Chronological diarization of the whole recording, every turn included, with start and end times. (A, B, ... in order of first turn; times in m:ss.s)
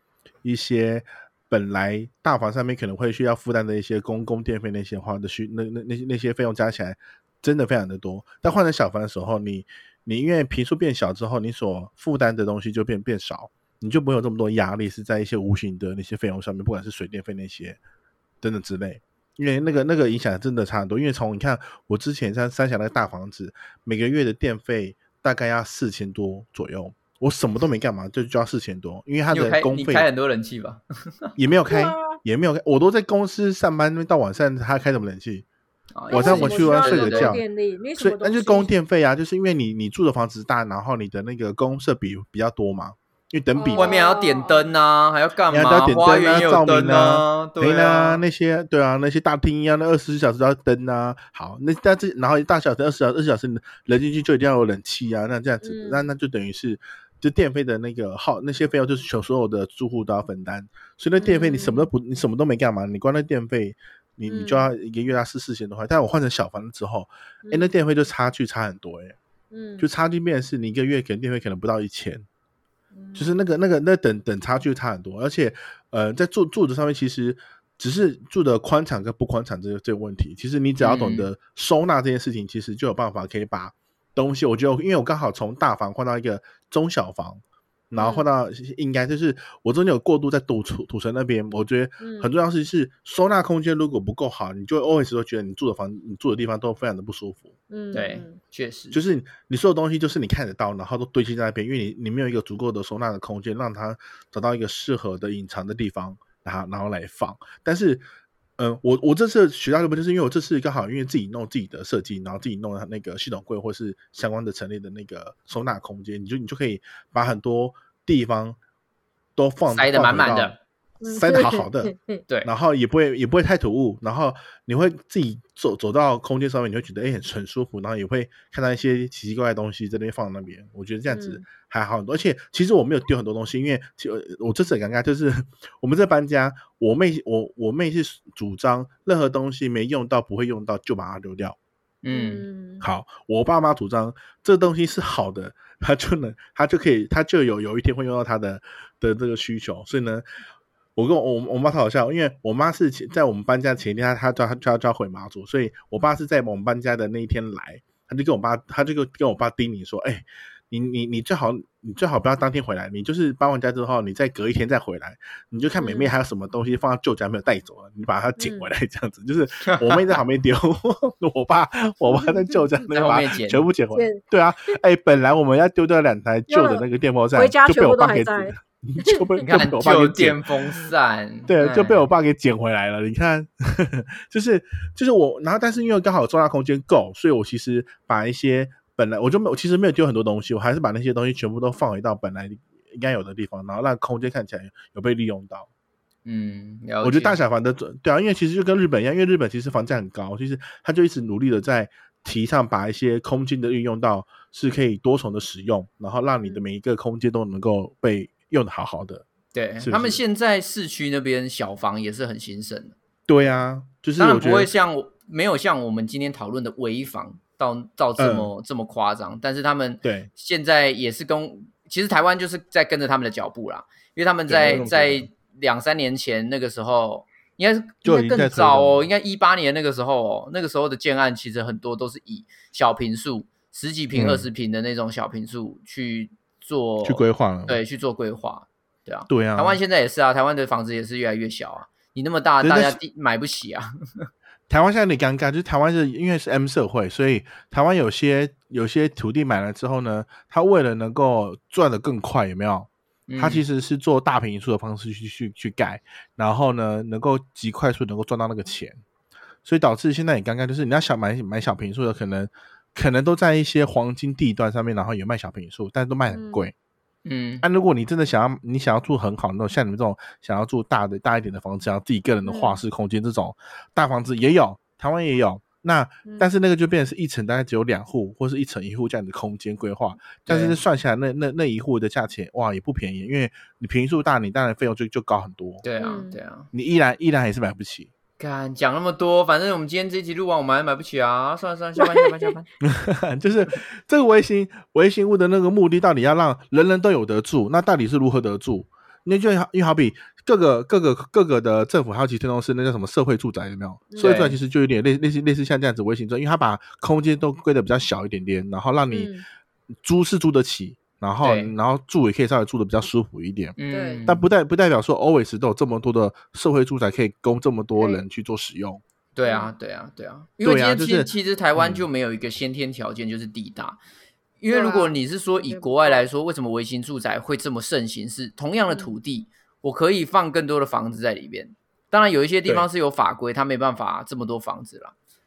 0:00.4-0:17.8 A
0:18.4-0:30.1 A
0:29.3-0:31.3 B
0:31.4-0:35.4 A
0:31.7-0:32.2 C
0:35.9-0:37.4 B
0:36.1-0:38.7 C
0:36.1-0:37.4 A
0:38.0-0:43.9 A
0:43.5-0:44.7 C
0:43.7-0:48.2 B
0:45.5-1:09.2 A
0:55.6-0:56.1 C
1:01.2-1:01.9 C
1:04.3-1:04.7 C
1:07.4-1:07.7 C
1:09.5-1:09.9 C
1:09.8-1:12.2 A
1:12.9-1:13.3 C
1:13.2-1:27.4 A
1:20.8-1:21.3 B
1:27.9-1:28.3 C
1:27.9-1:37.5 A
1:32.0-1:32.3 C
1:37.7-1:38.4 C
1:37.9-1:39.0 B
1:38.9-1:48.0 A
1:48.6-1:58.6 A
1:59.4-2:00.6 A
1:59.7-2:00.6 B
2:01.0-2:02.2 C
2:01.1-2:21.6 A
2:11.1-2:11.4 C
2:22.0-2:22.4 B
2:22.1-2:22.8 C
2:22.8-2:30.2 A
2:31.0-3:00.4 A
2:45.8-2:46.1 C
2:48.4-2:48.7 C
2:49.8-2:50.1 B
2:52.9-2:53.6 B
2:53.9-2:54.8 C
2:56.5-2:59.2 C
2:59.4-3:02.1 B
3:01.5-3:15.7 A
3:16.2-3:17.4 B
3:17.0-3:29.2 A
3:29.5-3:32.9 B
3:29.8-3:30.2 A
3:33.3-3:34.7 A
3:34.2-4:04.3 B
3:38.2-3:38.5 A
3:40.0-3:40.3 A
3:44.5-3:45.3 A
3:48.0-3:49.1 A
3:54.1-3:54.5 A
3:57.0-3:57.8 A
3:59.3-3:59.8 A
4:02.6-4:03.0 A
4:04.7-4:19.0 A
4:13.3-4:13.6 B
4:19.6-4:26.7 A
4:26.3-4:26.6 C
4:27.2-4:27.6 B
4:27.6-4:45.8 A
4:32.4-4:32.8 C
4:40.4-4:40.8 B
4:45.8-4:46.7 B
4:46.0-4:46.4 C
4:46.7-4:48.1 A
4:48.4-4:52.6 B
4:52.0-4:52.5 C
4:52.8-5:09.3 A
5:04.1-5:04.5 C
5:04.2-5:04.6 B
5:09.1-5:09.4 C
5:10.0-5:19.0 A
5:11.4-5:11.7 B
5:13.8-5:14.4 B
5:13.9-5:14.2 C
5:18.0-5:18.2 C
5:19.4-5:24.0 B
5:19.4-5:19.7 C
5:20.6-5:22.0 A
5:24.6-5:35.1 B
5:24.7-5:26.2 C